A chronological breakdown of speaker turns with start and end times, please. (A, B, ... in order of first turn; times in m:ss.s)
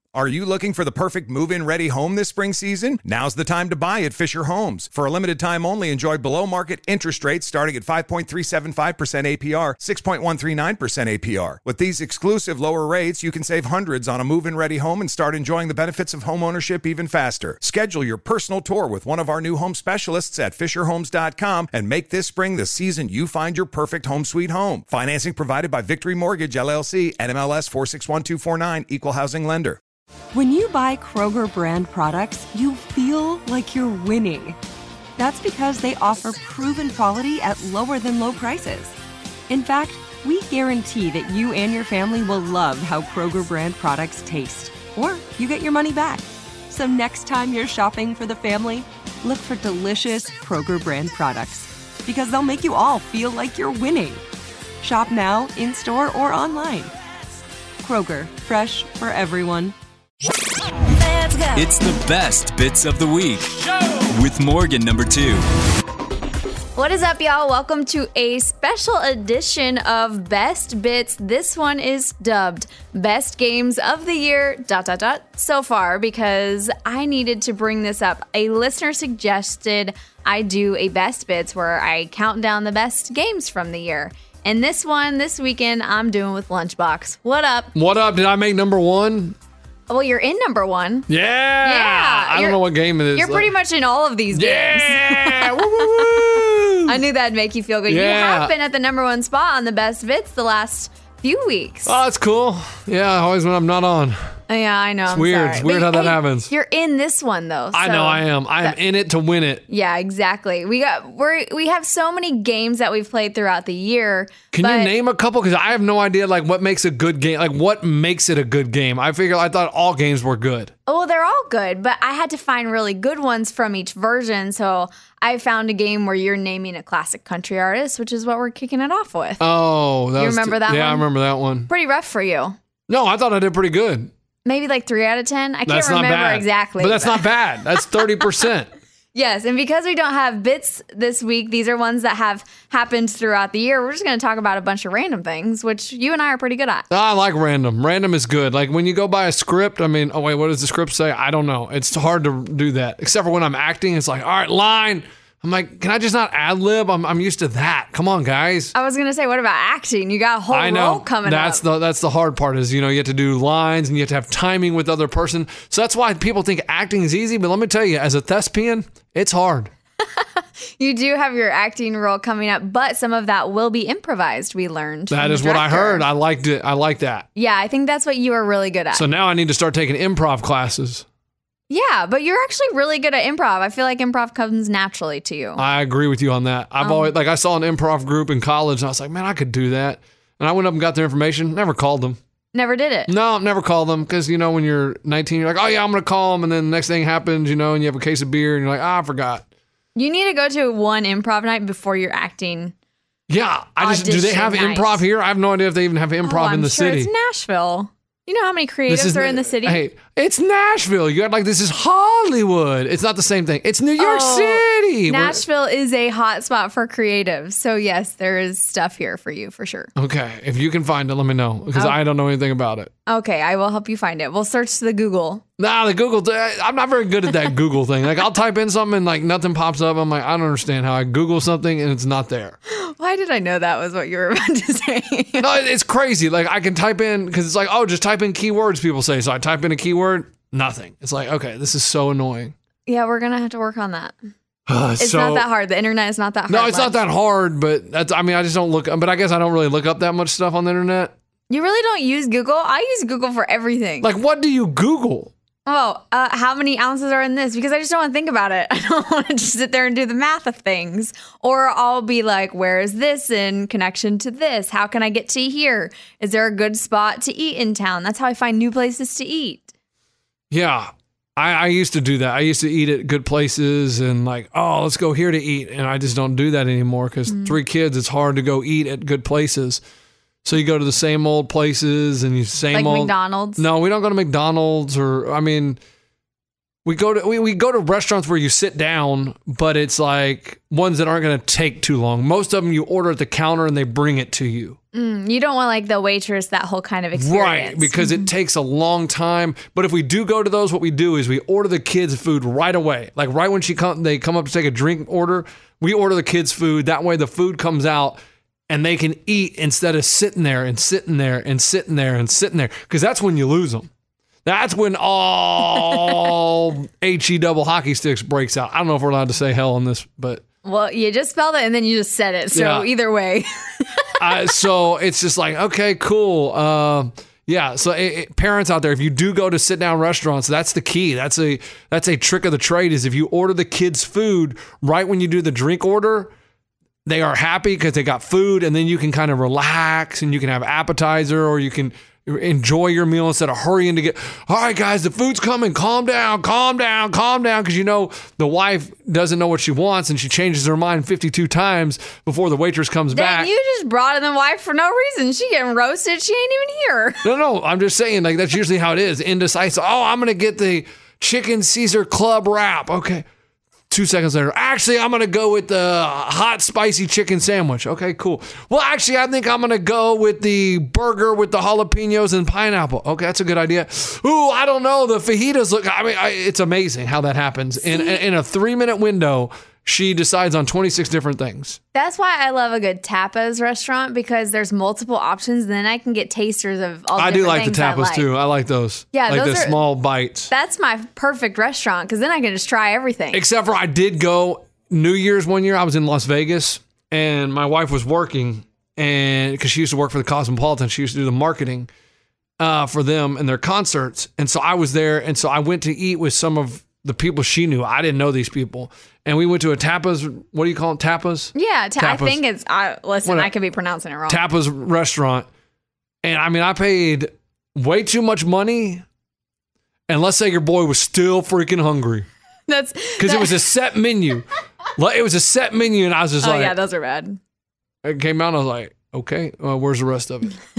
0:00.2-0:29.8 A
0:30.3-0:34.6 B
0:35.2-0:39.0 B
0:39.5-0:54.2 B
0:54.8-0:56.9 B
0:57.8-0:59.8 B
1:01.5-1:05.5 C
1:06.8-1:27.7 D
1:27.7-1:29.4 E
1:29.9-1:31.1 D
1:31.1-1:33.5 E
1:31.6-1:32.6 D
1:33.1-1:42.0 D
1:34.3-1:37.0 E
1:37.9-1:38.5 E
1:41.8-1:44.3 E
1:44.5-1:48.8 D
1:45.1-1:46.5 E
1:47.7-1:49.6 E
1:49.7-1:54.9 D
1:54.5-2:00.7 E
2:00.9-2:09.5 D
2:09.4-2:11.7 E
2:10.2-2:11.1 D
2:11.7-2:12.6 D
2:12.9-2:14.1 E
2:14.4-2:17.3 D
2:15.7-2:18.7 E
2:19.1-2:26.9 D
2:26.9-2:38.7 E
2:38.8-2:41.6 D
2:40.5-2:49.7 E
2:50.0-2:56.0 D
2:55.1-2:57.3 E
2:57.4-2:59.1 D
2:58.9-3:01.0 E
3:01.7-3:05.6 D
3:05.6-3:12.2 E
3:06.8-3:07.1 D
3:12.5-3:13.1 D
3:13.1-3:19.5 E
3:20.0-3:22.7 D
3:23.3-3:27.1 E
3:23.8-3:25.0 D
3:26.2-3:29.8 D
3:28.9-3:35.4 E
3:34.0-3:39.9 D
3:40.0-3:42.9 E
3:43.1-3:45.4 D
3:45.6-3:52.6 E
3:52.7-3:55.5 D
3:55.4-4:02.6 E
4:02.9-4:04.2 D
4:04.7-4:05.5 E
4:05.0-4:07.0 D
4:06.5-4:11.1 E
4:11.5-4:14.1 D
4:14.0-4:15.3 E
4:15.7-4:29.7 D
4:30.5-4:39.8 E
4:37.3-4:37.6 D
4:40.4-4:45.8 E
4:42.7-4:43.6 D
4:46.8-4:54.8 E
4:54.9-4:58.3 D
4:57.1-5:13.9 E
5:14.4-5:20.4 E
5:20.6-5:24.6 D
5:22.5-5:22.9 E
5:24.2-5:36.3 E
5:37.0-5:53.5 E
5:53.1-5:57.2 D
5:57.2-6:03.3 E
6:03.9-6:21.8 E
6:17.8-6:18.2 D
6:21.9-6:28.3 D
6:27.2-6:30.5 E
6:29.1-6:29.8 D
6:30.5-6:33.4 D
6:33.3-6:41.9 E
6:42.6-6:52.4 E
6:51.6-6:54.4 D
6:53.2-6:53.5 E
6:54.3-6:55.5 E
6:56.2-6:59.0 E
7:00.1-7:02.3 E
7:02.7-7:03.7 D
7:03.2-7:06.8 E
7:06.4-7:07.4 D
7:08.0-7:10.6 E